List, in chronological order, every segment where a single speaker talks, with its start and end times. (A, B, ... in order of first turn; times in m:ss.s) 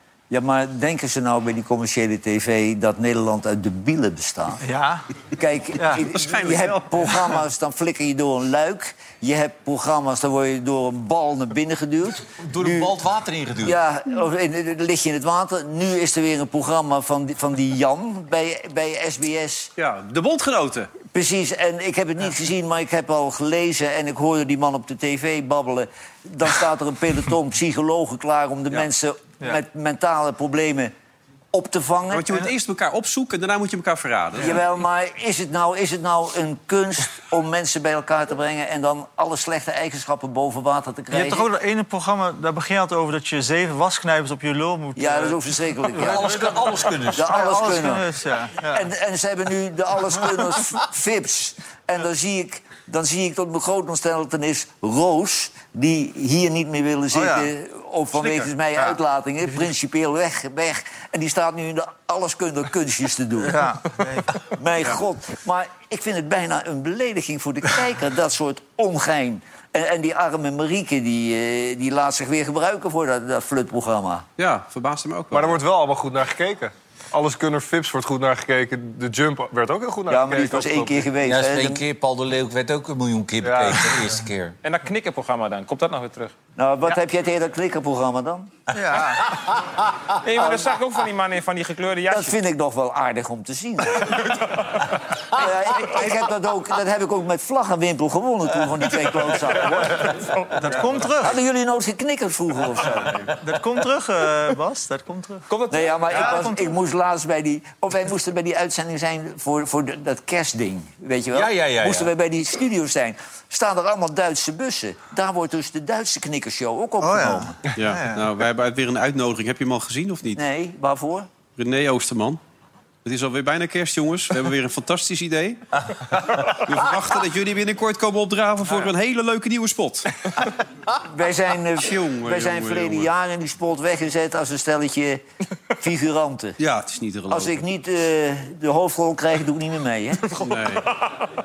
0:00.3-0:04.6 A
0:04.6-0:05.0 B
0:05.3-0:12.9 A
0:05.8-0:06.0 B
0:06.0-0:07.4 C
0:12.4-0:13.8 D
0:13.6-0:19.7 A
0:19.8-0:20.9 C
0:21.1-0:30.9 A
0:31.5-0:32.4 A
0:32.1-0:34.6 C
0:34.4-0:41.5 A
0:41.1-0:48.8 B
0:45.0-0:46.6 A
0:45.9-0:47.5 D
0:47.1-0:48.1 A
0:48.6-1:03.7 A
0:57.1-0:57.5 B
1:03.4-1:04.4 B
1:04.4-1:14.2 A
1:14.4-1:15.6 C
1:15.3-1:21.1 E
1:20.1-1:21.8 A
1:21.2-1:24.5 D
1:23.4-1:24.0 E
1:24.6-1:26.3 F
1:26.6-1:28.6 A
1:28.7-1:29.3 B
1:29.3-1:29.7 D
1:30.2-1:32.4 F
1:32.1-1:40.4 A
1:40.6-1:41.4 B
1:41.2-1:43.4 A
1:43.4-1:45.4 B
1:45.5-1:45.9 F
1:45.7-1:57.6 A
1:46.1-1:46.8 B
1:51.3-1:52.1 D
1:57.0-1:58.3 B
1:57.8-2:00.4 C
2:00.3-2:01.3 A
2:01.6-2:02.4 C
2:03.0-2:10.3 C
2:11.0-2:15.2 A
2:11.8-2:13.1 C
2:15.8-2:16.6 A
2:16.6-2:17.6 C
2:17.3-2:20.5 A
2:20.4-2:21.0 C